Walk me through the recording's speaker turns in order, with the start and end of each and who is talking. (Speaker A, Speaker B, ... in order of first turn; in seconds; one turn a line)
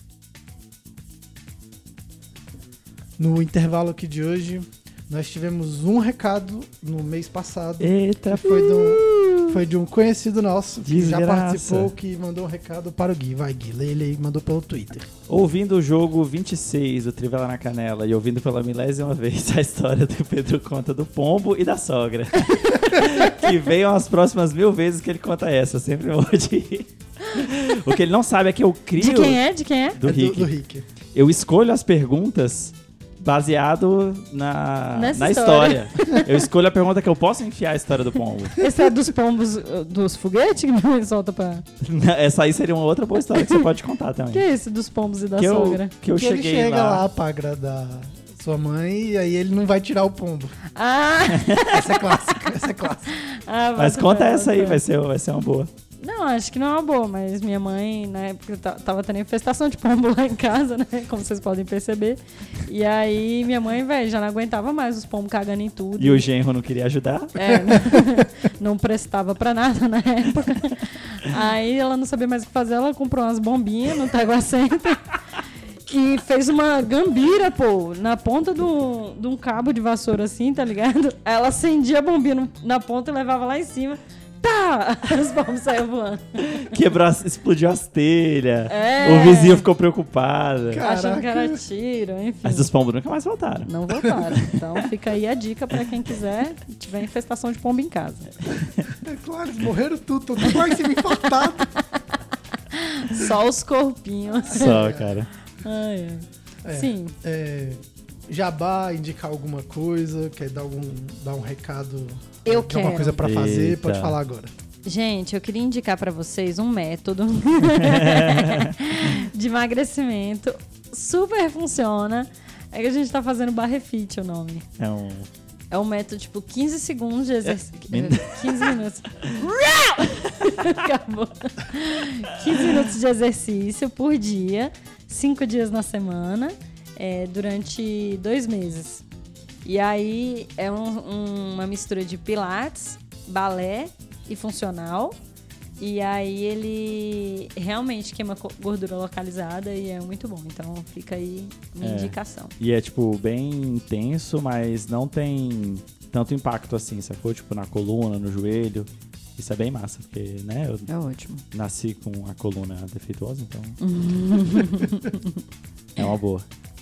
Speaker A: 3.2-15.1
Speaker B: 7.8-9.6
Speaker B: 10.8-11.9
Speaker B: 15.3-29.4
Speaker C: 29.0-30.0
Speaker B: 29.9-30.5
Speaker A: 30.0-30.9
Speaker B: 31.1-38.7
Speaker C: 34.9-36.4
Speaker C: 38.6-41.6
Speaker B: 41.8-44.4
Speaker C: 43.3-43.7
Speaker C: 44.3-45.9
Speaker B: 45.4-47.0
Speaker A: 46.1-50.6
Speaker C: 50.7-52.1
Speaker B: 51.3-51.7
Speaker A: 51.6-53.1
Speaker C: 53.1-54.8
Speaker B: 53.8-55.7
Speaker C: 56.0-66.2
Speaker B: 66.0-67.9
Speaker C: 67.3-75.1
Speaker C: 75.8-86.7
Speaker B: 86.5-90.8
Speaker C: 88.7-89.6
Speaker A: 90.7-91.6
Speaker C: 90.8-92.7
Speaker B: 92.4-94.5
Speaker C: 93.7-98.3
Speaker A: 98.9-101.7
Speaker C: 102.7-104.9
Speaker A: 104.5-105.2
Speaker B: 104.5-105.3
Speaker C: 105.6-107.1
Speaker A: 106.6-114.5
Speaker C: 112.4-113.2
Speaker B: 113.2-114.2
Speaker C: 114.8-124.7
Speaker B: 117.8-118.7
Speaker B: 124.8-125.3
Speaker C: 125.7-139.0
Speaker B: 127.5-128.7
Speaker C: 139.6-145.2
Speaker C: 145.8-152.5
Speaker B: 151.8-160.9
Speaker C: 160.9-161.4
Speaker B: 161.5-163.8
Speaker C: 163.8-165.4
Speaker B: 166.0-166.4